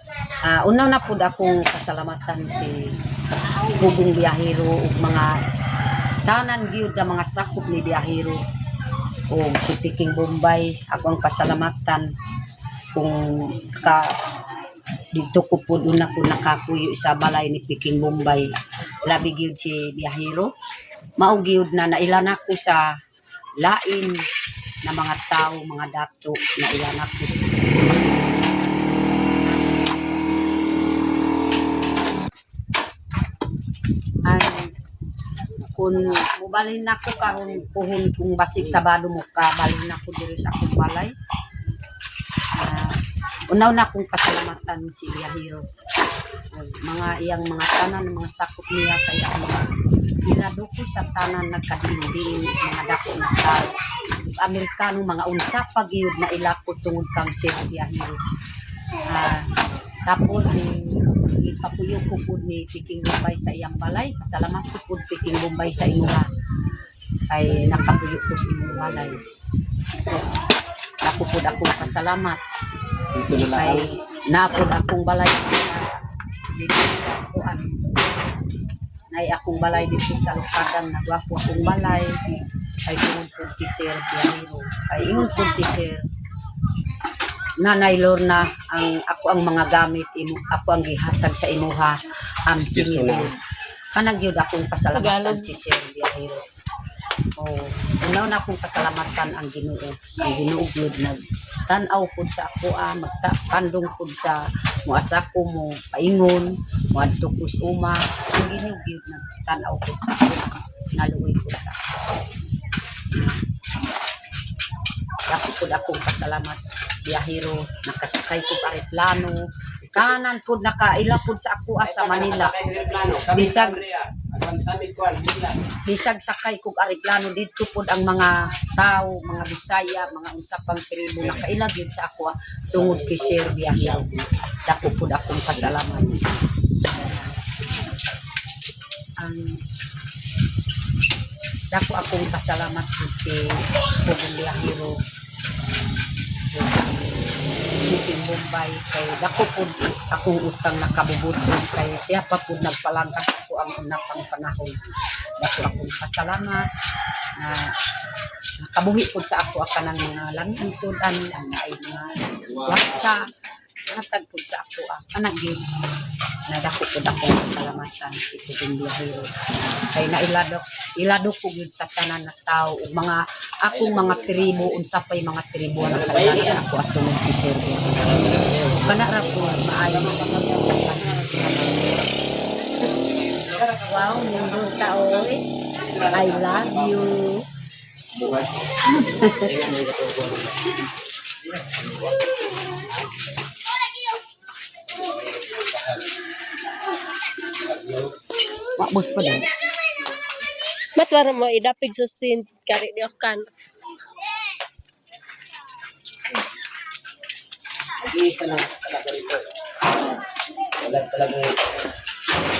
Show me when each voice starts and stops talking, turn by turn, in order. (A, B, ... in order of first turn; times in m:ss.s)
0:00.4-0:02.8 A
0:03.7-0:05.3 A
0:06.2-0:08.4 A
0:09.3-0:12.0 A
0:12.9-0:14.0 A
0:15.1-0:18.5 A
0:19.1-0:20.5 A
0:21.2-0:22.8 A
0:23.6-0:24.1 A
0:24.8-0:31.0 A
0:34.2-0:34.7 A
0:35.4-0:37.7 B
0:35.8-0:41.1 A
0:38.6-0:38.8 B
0:42.6-0:42.9 A
0:43.5-0:45.6 A
0:46.5-0:49.7 A
0:50.3-0:53.7 A
0:54.2-0:58.2 A
0:59.0-0:59.4 A
1:00.0-1:06.3 A
1:05.7-1:06.2 B
1:07.3-1:09.2 A
1:07.4-1:08.0 B
1:08.7-1:09.2 B
1:11.0-1:12.4 A
1:13.1-1:13.8 B
1:13.5-1:15.9 A
1:16.6-1:17.8 A
1:19.1-1:26.0 A
1:27.6-1:33.3 A
1:32.6-1:33.3 B
1:33.9-1:36.4 A
1:34.9-1:35.4 C
1:37.4-1:41.2 A
1:41.7-1:51.8 A
1:53.1-1:53.4 A
1:55.3-2:02.5 A
1:59.8-2:00.2 B
2:01.8-2:05.6 B
2:03.3-2:03.8 A
2:05.8-2:14.0 A
2:11.2-2:11.5 B
2:12.7-2:14.3 B
2:14.7-2:16.3 A
2:15.5-2:16.2 B
2:16.9-2:17.3 A
2:19.2-2:19.6 A
2:21.7-2:25.0 A
2:26.5-2:27.1 A
2:27.8-2:34.7 A
2:35.4-2:36.6 A
2:38.6-2:43.3 A
2:42.4-2:43.2 B
2:43.9-2:45.6 A
2:46.5-2:49.3 A
2:49.9-2:58.2 A
2:53.7-2:54.8 B
2:55.8-2:56.6 B
2:58.0-3:01.3 B
2:58.8-3:02.0 A
3:02.8-3:07.0 B
3:03.8-3:05.4 A
3:06.1-3:07.4 A
3:08.1-3:10.8 B
3:08.9-3:09.5 A
3:11.4-3:13.1 B
3:14.9-3:16.1 B
3:17.5-3:18.1 B
3:18.8-3:19.5 A
3:21.0-3:23.4 C
3:28.0-3:29.5 B
3:30.8-3:31.6 B